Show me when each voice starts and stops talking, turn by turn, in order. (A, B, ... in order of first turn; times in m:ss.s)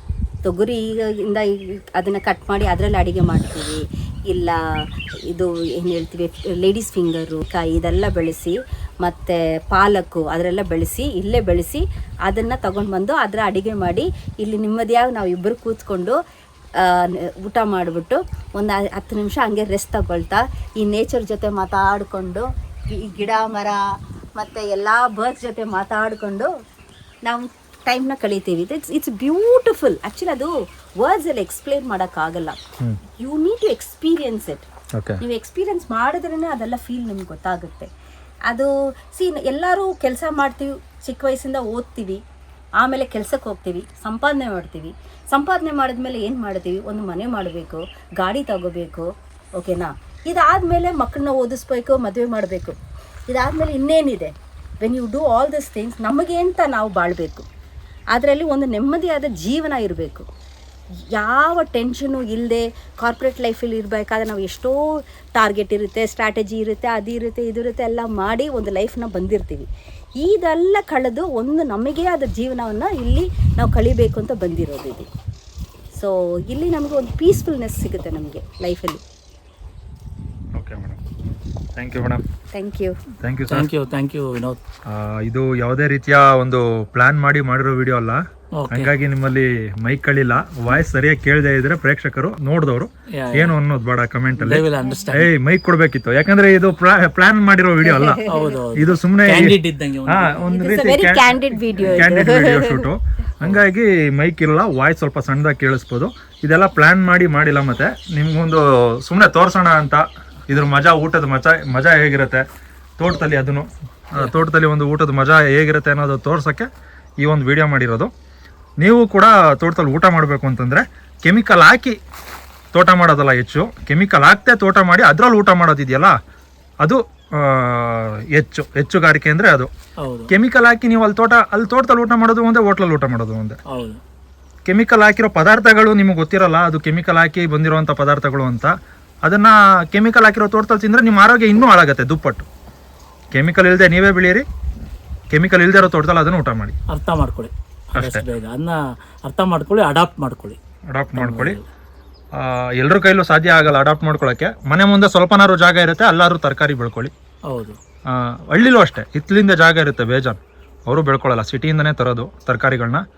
0:00.4-0:16.2 A
0:16.8-0:23.8 A
0:24.4-0:26.5 A
0:27.2-0:32.6 A
0:33.2-0:34.7 A
0:34.9-0:35.2 B
0:35.2-0:37.9 A
0:38.5-0:42.2 A
0:42.8-0:52.8 A
0:53.3-0:57.5 A
0:58.1-1:00.3 A
1:01.1-1:15.1 A
1:15.9-1:19.0 A
1:20.6-1:21.0 B
1:21.8-1:22.2 B
1:22.5-1:23.0 A
1:23.2-1:23.7 B
1:23.5-1:24.6 C
1:24.9-1:38.2 B
1:28.5-1:28.9 C
1:33.1-1:33.5 C
1:34.4-1:35.3 C
1:37.8-1:38.6 A
1:38.3-1:40.5 C
1:38.7-1:52.4 B
1:40.5-1:42.9 A
1:53.0-1:56.7 B
1:57.2-1:58.1 B
1:58.8-2:02.0 B
2:02.8-2:06.2 B
2:06.8-2:09.7 B
2:10.0-2:10.3 C
2:10.3-2:13.6 B
2:13.7-2:14.0 C
2:14.7-2:22.5 B
2:23.3-2:24.4 B
2:25.3-2:26.8 B
2:26.9-2:30.6 C
2:27.9-2:28.3 B
2:30.9-2:31.6 B
2:31.1-2:31.6 C
2:32.3-2:37.1 B
2:37.5-2:37.8 C
2:38.1-2:43.0 B